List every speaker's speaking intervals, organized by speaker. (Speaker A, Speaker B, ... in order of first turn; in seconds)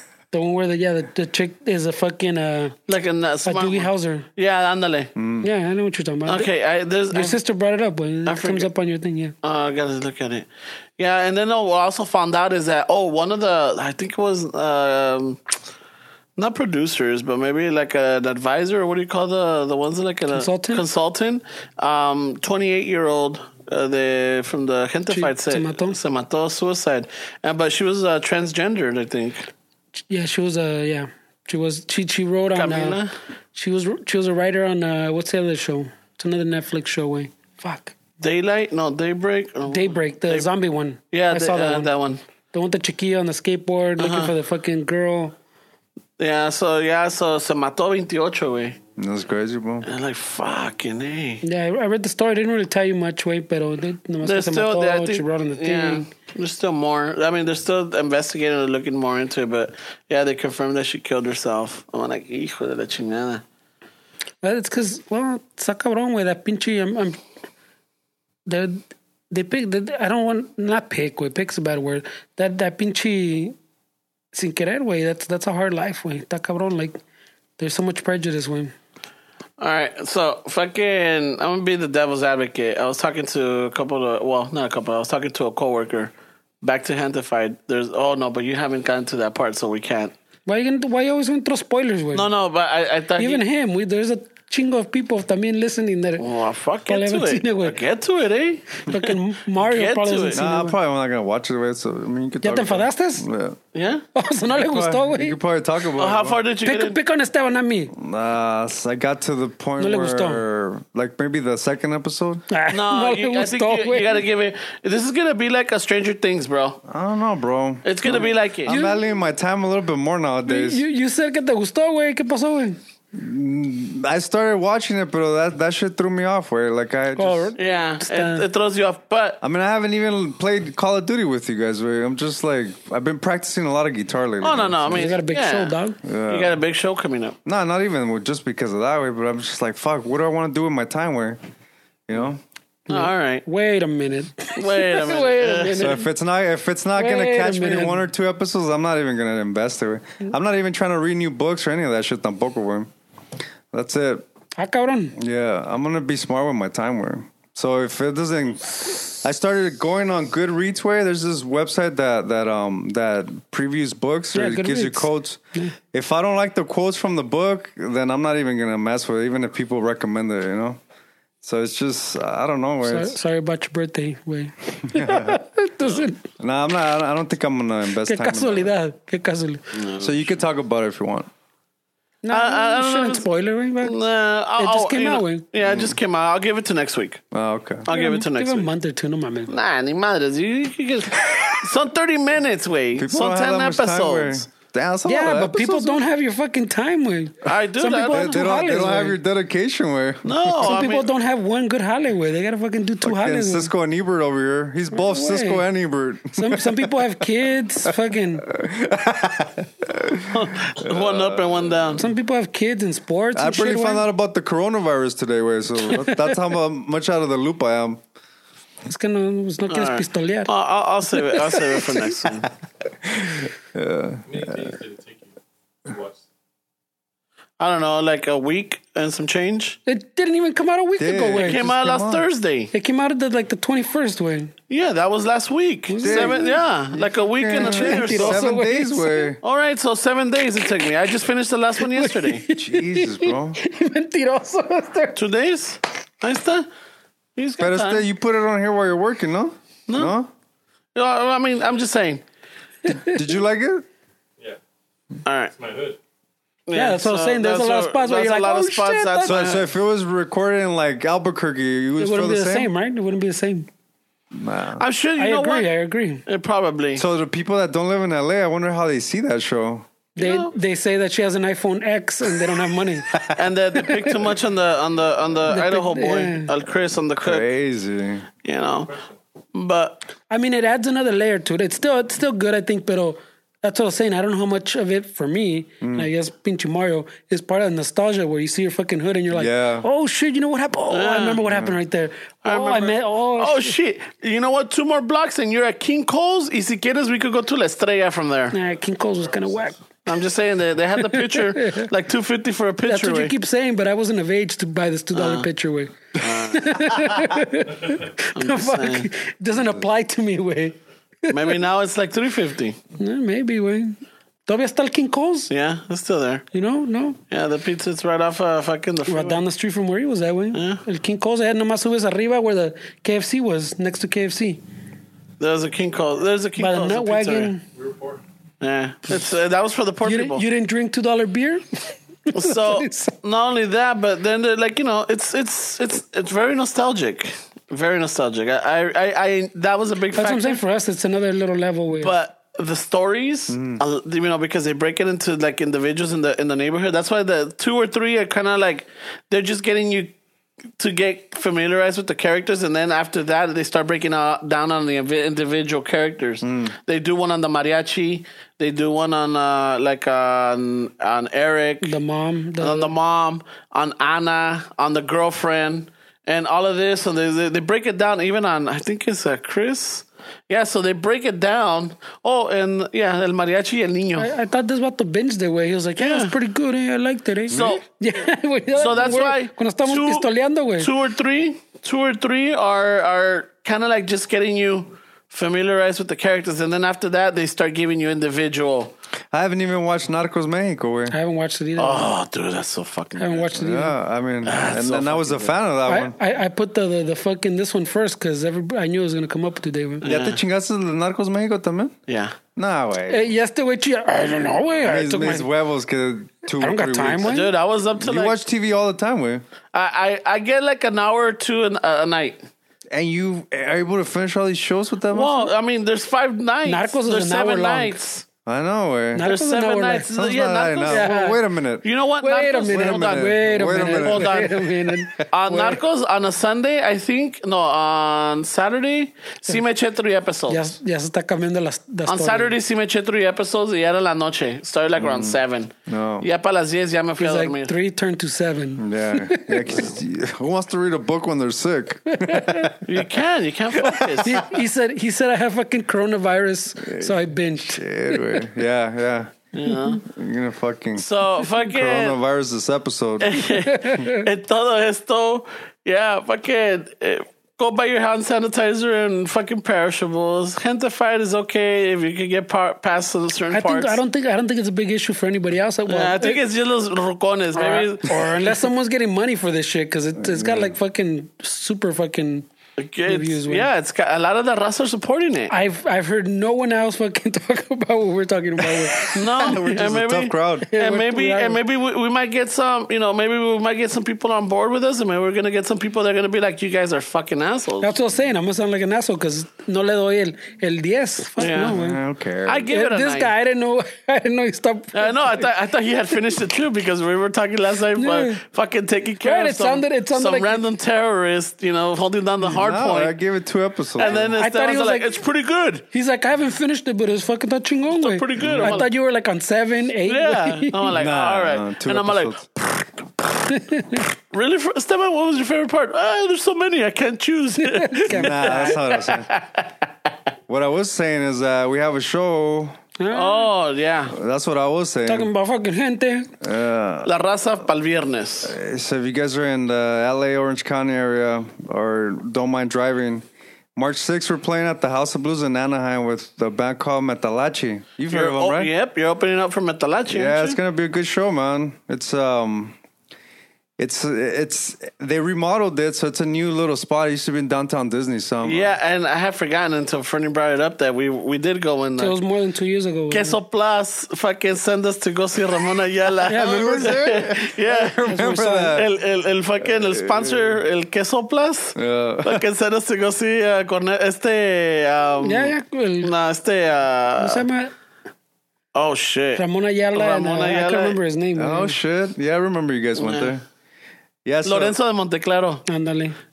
Speaker A: 0.3-2.8, 3.4-4.3, 5.4-6.5, 7.1-9.3, 20.3-20.8, 25.1-26.0, 30.1-33.0, 33.5-37.9, 39.7-41.9, 42.5-45.3, 51.4-56.1, 64.4-67.2, 68.5-73.5, 74.3-77.0, 77.6-78.7, 90.5-92.3, 93.2-96.2, 96.9-97.8, 98.8-100.7, 102.4-103.2, 104.1-105.4, 106.6-107.9, 109.8-110.4, 112.5-114.2, 118.7-119.0, 120.5-122.8, 127.2-128.4, 134.9-136.0, 142.9-146.1, 146.9-148.0, 154.6-155.2, 164.3-165.7, 172.8-176.2, 178.0-179.6, 182.2-184.0, 184.6-185.4, 187.9-189.5, 195.1-199.2, 200.6-203.7, 204.9-205.7, 206.3-208.5, 211.9-214.1, 215.9-216.3, 218.8-220.5, 221.2-222.1, 229.8-231.6, 232.7-234.5, 235.9-236.6, 237.6-239.3, 241.8-245.2, 252.8-253.2, 256.7-259.5, 262.0-263.7, 265.2-266.2, 270.2-273.2, 275.5-276.5, 280.3-293.7, 298.5-299.8, 301.0-301.9, 302.8-311.6, 313.0-315.5, 316.5-317.2, 319.1-324.6, 326.6-327.6, 330.0-333.1, 340.1-342.1, 361.8-362.9, 374.2-380.9, 391.1-392.1, 393.2-393.9, 395.8-400.1, 403.1-405.5, 406.6-407.5, 416.6-418.0, 419.1-420.1, 420.9-421.4, 422.2-425.8, 430.5-432.5, 437.2-439.9, 442.1-442.8, 444.2-448.5, 453.5-454.3, 463.5-466.4, 467.5-472.5, 473.1-473.7, 475.5-479.2, 480.7-481.6, 487.8-492.0, 492.7-495.5, 497.9-498.4, 499.2-500.6, 504.0-505.1, 505.9-510.9, 513.5-514.0, 517.6-518.8, 523.0-523.5, 525.0-526.3, 552.0-553.4, 556.2-557.0, 558.0-558.8, 565.2-566.1, 567.2-567.7, 569.4-571.8, 575.7-576.2
Speaker B: 2.9-5.1, 6.3-7.4, 8.2-8.7, 9.4-10.5, 11.0-15.4, 16.4-29.5, 32.5-33.1, 38.2-40.5, 41.1-42.2, 44.0-44.3, 46.2-48.8, 49.8-51.4, 54.2-63.4, 79.6-90.1, 92.1-93.4, 96.2-100.4, 103.7-104.0, 106.0-107.0, 112.7-116.8, 117.8-118.7, 127.6-129.4, 134.4-135.7, 136.3-137.4, 142.9-143.4, 144.6-146.0, 179.7-180.3, 182.3-183.2, 183.8-187.2, 187.8-188.7, 189.5-194.4, 197.4-198.4, 200.2-201.1, 210.3-212.1, 219.7-222.5, 227.6-229.8, 231.4-232.7, 234.7-238.4, 239.4-242.4, 245.2-246.7, 247.4-248.1, 249.9-250.1, 250.9-252.2, 255.2-255.5, 256.7-259.6, 264.8-265.7, 266.2-267.0, 270.2-270.5, 273.3-277.4, 278.4-278.9, 279.5-280.0, 290.9-291.4, 292.4-298.6, 300.1-303.3, 305.1-305.5, 306.2-307.3, 308.3-309.1, 311.3-312.8, 315.5-316.4, 317.3-319.4, 320.5-320.8, 325.4-327.5, 328.6-330.4, 332.3-340.6, 342.0-350.1, 350.8-361.9, 362.6-374.3, 376.0-376.3, 377.5-377.8, 378.8-388.9, 391.8-393.5, 394.4-395.6, 400.0-400.4, 402.1-402.4, 407.2-408.4, 409.7-412.4, 415.1-418.2, 419.2-421.1, 421.8-430.7, 432.1-437.7, 442.8-444.5, 449.5-450.0, 450.9-452.2, 453.2-464.0, 465.9-468.6, 472.8-475.5, 478.9-487.9, 491.4-491.8, 492.4-493.3, 494.9-503.1, 504.0-505.8, 507.9-508.9, 510.1-513.4, 513.9-519.7, 523.1-524.1, 527.0-528.5, 538.1-540.6, 548.4-552.2, 553.1-567.4, 568.7-571.0, 573.0-573.3, 574.4-575.6
Speaker C: 5.2-5.5, 49.0-49.9, 100.3-103.6, 104.5-106.4, 107.9-112.4, 116.9-120.8, 123.1-127.5, 129.4-135.1, 136.0-136.6, 137.4-141.4, 142.1-142.4, 145.8-152.9, 153.7-154.2, 155.2-165.4, 165.9-170.8, 171.4-173.2, 174.9-175.4, 176.4-178.7, 180.0-181.3, 185.6-185.9, 187.3-187.9, 192.9-196.0, 198.1-200.7, 203.0-207.1, 208.4-211.9, 213.3-218.0, 223.0-224.7, 231.0-232.2, 236.0-236.6, 237.3-239.4, 242.5-243.6, 247.6-250.3, 252.9-253.8, 259.2-262.7, 264.3-264.8, 266.9-269.9, 277.2-278.3, 285.8-286.1, 289.3-289.9, 291.4-291.7, 343.5-343.8, 356.4-356.7, 377.5-377.8, 389.3-391.1, 393.5-396.1, 400.0-401.9, 402.6-403.2, 404.8-407.3, 408.0-409.4, 412.9-415.5, 418.4-419.3, 420.1-421.9, 422.7-424.4, 435.0-436.3, 438.8-443.0, 443.8-444.1, 446.8-449.3, 450.0-453.4, 470.2-470.8, 479.3-480.7, 491.6-492.7, 502.4-504.3, 508.4-508.8, 510.9-512.4, 518.1-519.3, 520.5-522.8, 524.1-525.3, 526.4-527.1, 528.4-533.2, 533.8-538.7, 540.1-542.8, 543.8-548.7, 556.3-558.9, 559.6-560.4, 561.8-562.4, 571.4-573.4, 574.2-574.7
Speaker D: 224.3-226.2, 255.6-256.0, 327.7-328.2